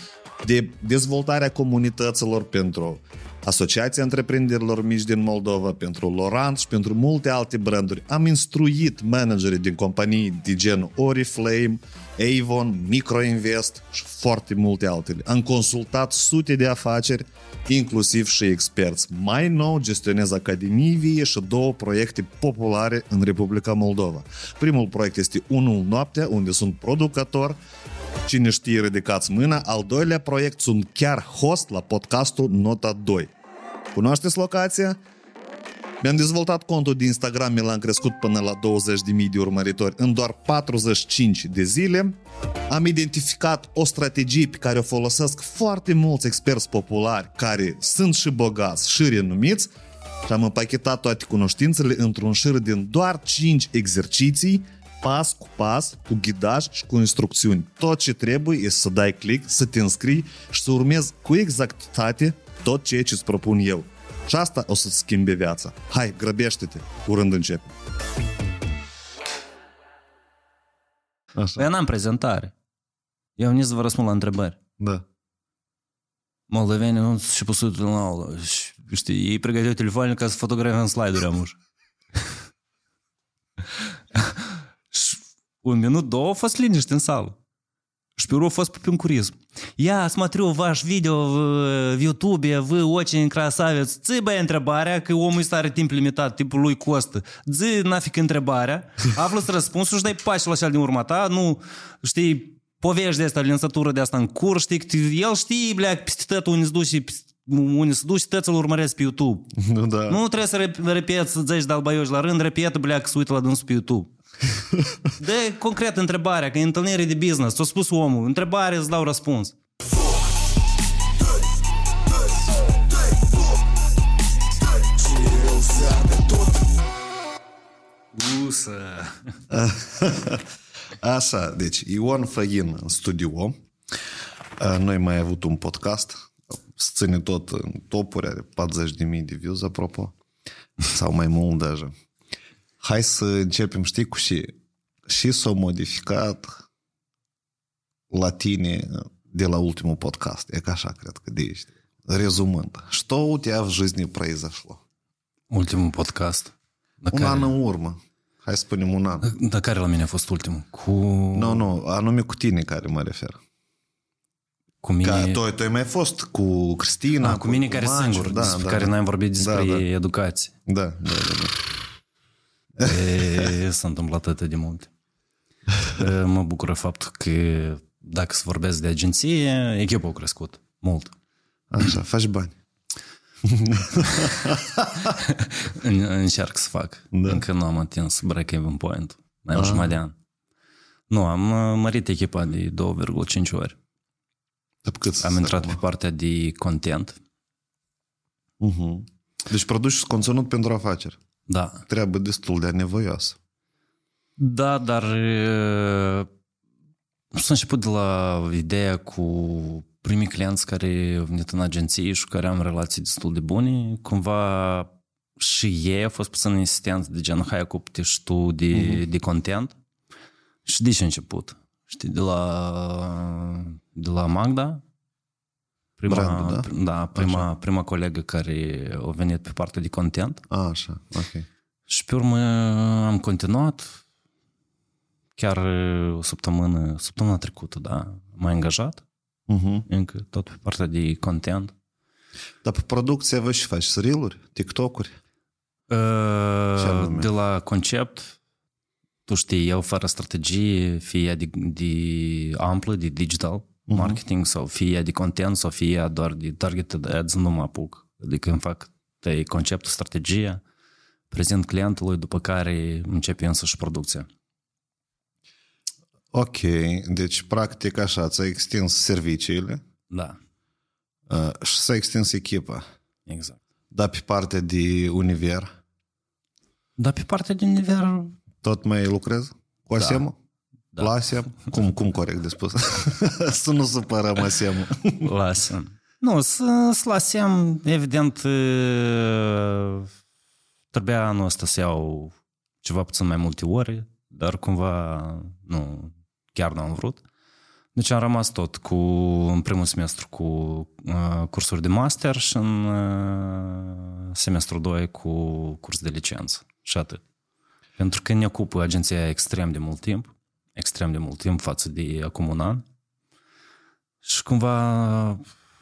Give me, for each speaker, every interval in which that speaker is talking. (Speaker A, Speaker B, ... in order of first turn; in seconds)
Speaker A: 0.4-27.6, 28.2-33.3, 33.9-35.0, 36.0-42.2, 42.7-49.7, 50.3-67.7, 71.4-71.7, 74.8-75.0, 109.6-110.2, 129.5-130.4, 131.0-133.6, 134.6-140.1, 140.8-141.9, 142.8-144.5, 145.1-146.6, 148.1-154.8, 157.1-159.3, 161.3-163.4, 165.0-169.8, 170.7-171.6, 172.8-173.5, 181.7-182.6, 183.4-185.1, 187.1-187.4, 189.5-189.9, 194.8-195.8, 198.6-201.2, 201.9-203.4, 218.7-219.0, 226.1-227.5, 230.5-231.5, 239.5-239.9, 242.6-245.2, 246.8-247.3, 253.9-254.2, 266.3-269.8, 271.3-272.8, 273.9-275.7, 278.6-280.4, 281.0-285.3
Speaker B: 71.6-72.5, 73.4-74.6, 76.5-81.6, 84.9-87.4, 88.2-109.5, 110.1-114.1, 115.2-119.5, 128.1-129.2, 155.5-157.5, 159.2-161.7, 164.8-165.4, 167.2-170.5, 172.8-174.9, 175.9-181.2, 183.9-190.1, 191.1-193.8, 195.2-197.2, 201.5-201.8, 204.4-206.3, 207.3-219.8, 220.7-224.8, 226.0-230.4, 231.9-234.0, 235.4-239.0, 239.9-241.7, 245.9-248.4, 249.3-260.6, 261.3-264.3, 270.1-270.4, 273.3-273.6, 277.0-278.4, 280.0-280.2, 285.2-290.1, 290.9-297.2, 297.9-307.2, 308.0-312.8, 314.2-315.4